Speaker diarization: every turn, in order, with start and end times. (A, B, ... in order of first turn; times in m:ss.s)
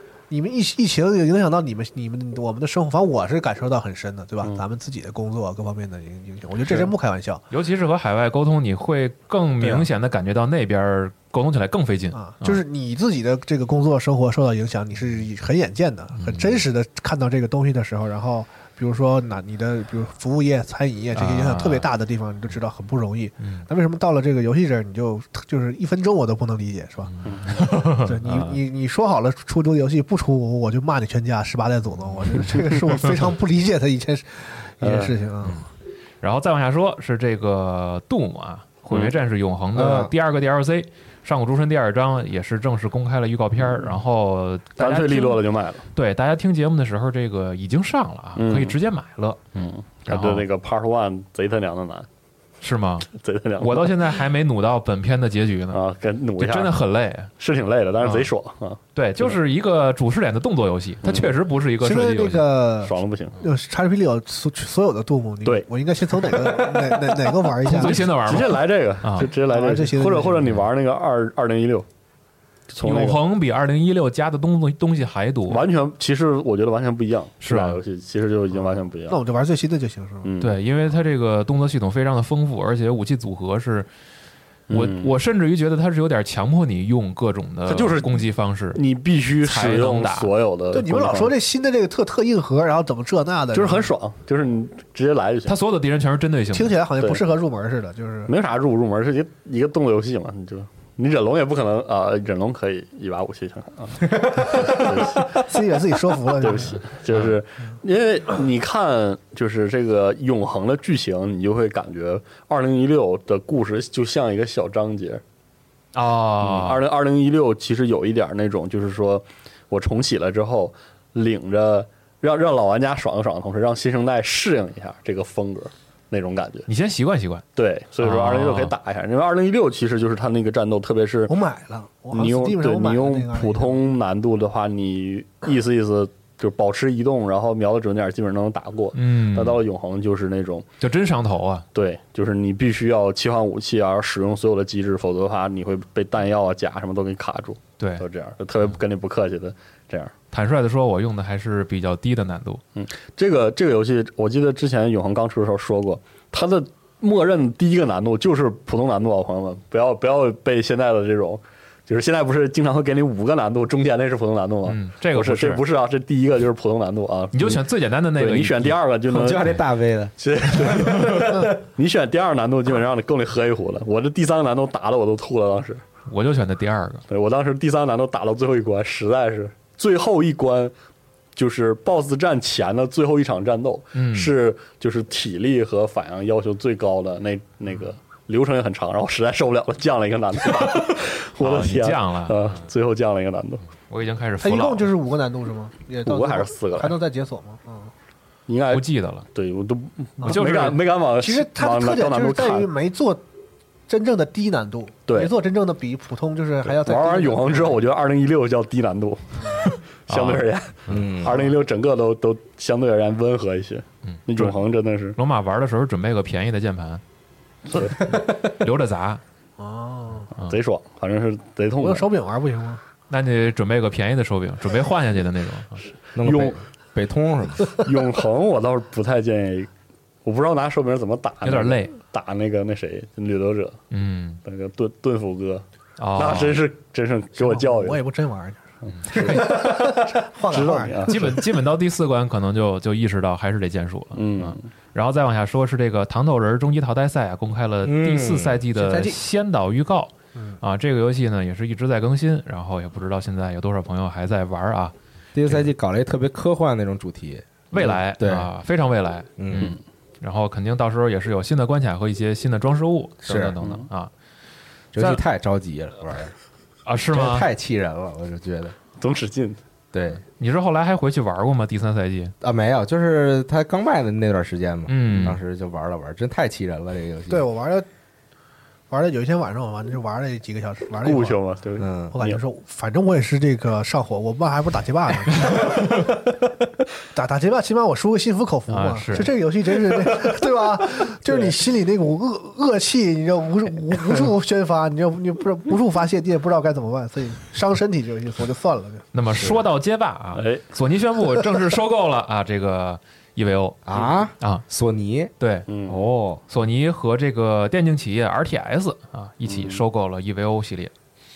0:00.3-0:07.4 A
0:07.5-0:12.6 B
0:12.1-0:35.6 A
0:16.2-0:16.6 B
0:21.1-0:21.9 B
0:23.4-0:23.6 B
0:27.1-0:28.6 B
0:34.8-0:35.2 C
0:36.2-0:45.4 B
0:39.7-0:40.1 D
0:44.8-0:45.9 C
0:45.9-0:49.4 B
0:48.4-0:48.8 C
0:49.5-0:52.1 C
0:50.1-0:50.4 B
0:52.6-0:53.1 B
0:53.1-0:54.1 C
0:53.6-0:55.8 B
0:55.7-0:56.8 C
0:56.4-0:57.3 B
0:57.4-0:59.4 C
0:58.0-0:58.3 B
0:58.9-1:02.4 B
1:01.0-1:01.3 C
1:01.8-1:08.1 A
1:02.8-1:03.4 C
1:06.2-1:06.8 C
1:07.6-1:09.3 B
1:07.6-1:11.9 C
1:09.4-1:10.5 A
1:12.7-1:13.2 C
1:12.8-1:15.6 B
1:15.5-1:19.2 C
1:17.4-1:17.8 B
1:19.1-1:20.3 A
1:20.2-1:20.6 C
1:20.4-1:23.9 B
1:24.7-1:25.1 C
1:24.7-1:28.8 B
1:27.7-1:28.2 C
1:28.8-1:31.4 C
1:29.4-1:30.3 B
1:30.7-1:33.9 A
1:33.5-1:35.6 C
1:35.4-1:36.8 B
1:36.5-1:38.3 A
1:38.3-1:45.4 C
1:45.3-1:46.8 A
1:46.3-1:55.2 C
1:55.9-1:56.8 B
1:56.4-2:06.7 C
2:06.7-2:07.4 B
2:07.6-2:11.4 C
2:08.0-2:08.7 B
2:11.3-2:13.8 A
2:12.1-2:20.6 C
2:18.9-2:19.6 B
2:20.8-2:21.6 B
2:21.7-2:30.1 C
2:27.8-2:28.0 B
2:30.3-2:32.6 B
2:32.8-2:47.6 C
2:44.6-2:45.6 B
2:47.3-2:48.8 B
2:48.1-2:49.5 C
2:49.1-2:51.4 D
2:50.2-2:55.8 C
2:50.7-2:51.4 B
2:56.1-2:57.0 B
2:57.1-3:00.7 C
3:01.4-3:13.6 C
3:03.9-3:04.3 B
3:11.4-3:12.6 B
3:13.9-3:14.9 B
3:14.4-3:17.9 A
3:16.0-3:17.0 C
3:18.5-3:22.7 C
3:18.7-3:19.3 B
3:20.2-3:20.8 B
3:21.2-3:23.2 A
3:23.9-3:27.8 A
3:25.1-3:25.3 C
3:26.6-3:35.2 C
3:29.6-3:31.0 B
3:30.9-3:31.4 D
3:34.1-3:34.6 B
3:35.2-3:37.0 B
3:37.7-3:38.0 C
3:38.1-3:39.2 B
3:39.6-3:40.3 A
3:40.5-3:42.1 C
3:41.8-3:42.8 A
3:43.1-3:45.8 B
3:46.2-3:47.7 D
3:46.2-3:46.6 C
3:47.8-3:49.7 C
3:50.2-3:53.8 C
3:51.4-3:51.9 B
3:53.9-3:54.4 B
3:54.4-3:55.6 C
3:56.0-3:56.6 B
3:56.2-3:58.0 C
3:57.4-4:01.4 A
3:59.0-3:59.6 B
3:59.1-4:01.4 C
4:01.1-4:14.9 B
4:04.1-4:04.6 C
4:07.8-4:08.6 D
4:08.8-4:09.1 A
4:10.4-4:10.6 A
4:15.3-4:18.5 D
4:17.7-4:24.1 B
4:19.4-4:19.7 D
4:23.2-4:23.5 D
4:24.9-4:26.3 D
4:25.0-4:25.2 B
4:26.9-4:27.5 B
4:27.1-4:28.8 D
4:29.0-4:29.6 C
4:29.9-4:30.2 D
4:30.4-4:32.3 B
4:32.4-4:37.5 D
4:34.9-4:35.4 B
4:37.3-4:37.9 A
4:38.9-4:41.4 A
4:41.0-4:42.4 C
4:41.8-4:42.2 D
4:42.1-4:46.1 A
4:47.1-4:59.1 A
4:48.7-4:49.3 B
4:51.3-4:51.6 C
4:59.1-5:03.8 B
5:00.4-5:00.6 C
5:03.9-5:05.3 D
5:05.4-5:05.6 B
5:05.7-5:06.0 C
5:05.9-5:06.4 D
5:06.5-5:10.9 B
5:09.5-5:09.8 C